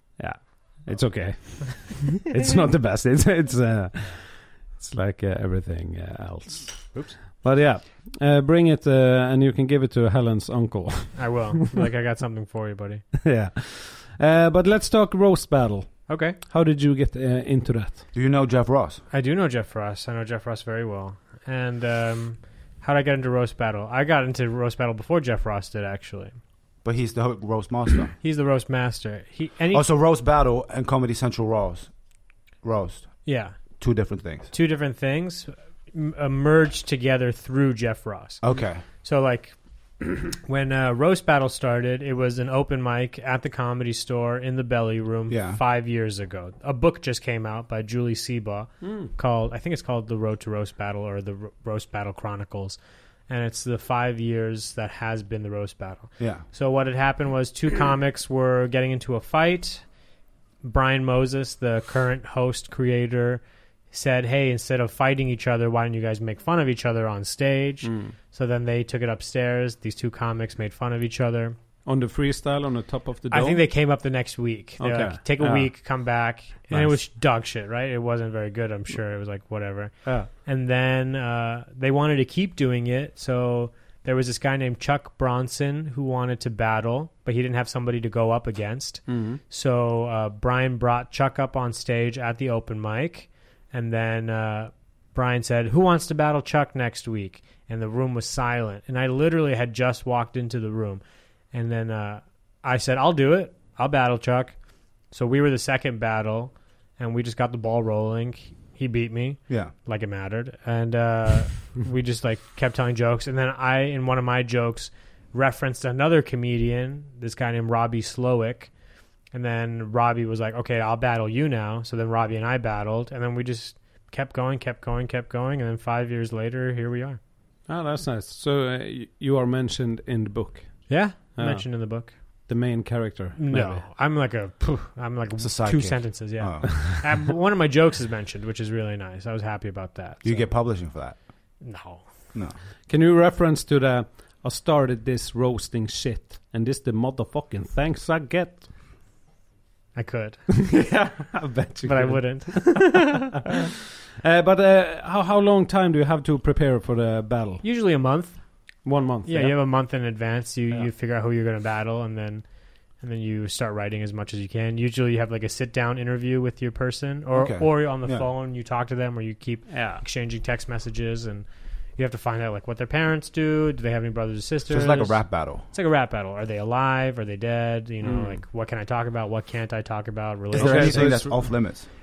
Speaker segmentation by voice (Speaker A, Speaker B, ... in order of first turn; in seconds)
Speaker A: 0.2-11.8, 13.2-18.1, 48.8-49.1, 67.8-68.1, 71.8-73.6, 74.8-75.9, 76.7-77.0, 89.1-89.4, 127.7-133.8, 142.9-148.7, 150.6-153.1, 154.2-157.6, 158.8-159.6, 169.7-170.0, 178.0-178.4, 180.5-181.4
Speaker B: 11.1-13.0, 16.1-16.4, 19.1-26.4, 28.2-29.8, 33.2-33.8, 34.5-59.9, 60.6-71.5, 73.3-118.7, 119.3-127.2, 130.9-132.5, 133.3-140.5, 141.2-142.1, 149.9-150.5, 151.8-153.2, 157.6-181.5
Speaker C: 18.1-19.0, 26.8-28.1, 29.7-31.9, 32.6-34.5, 38.4-38.8, 45.3-45.6, 56.2-56.4, 135.4-136.7, 140.2-141.2, 167.3-168.3, 174.7-175.7, 180.5-181.8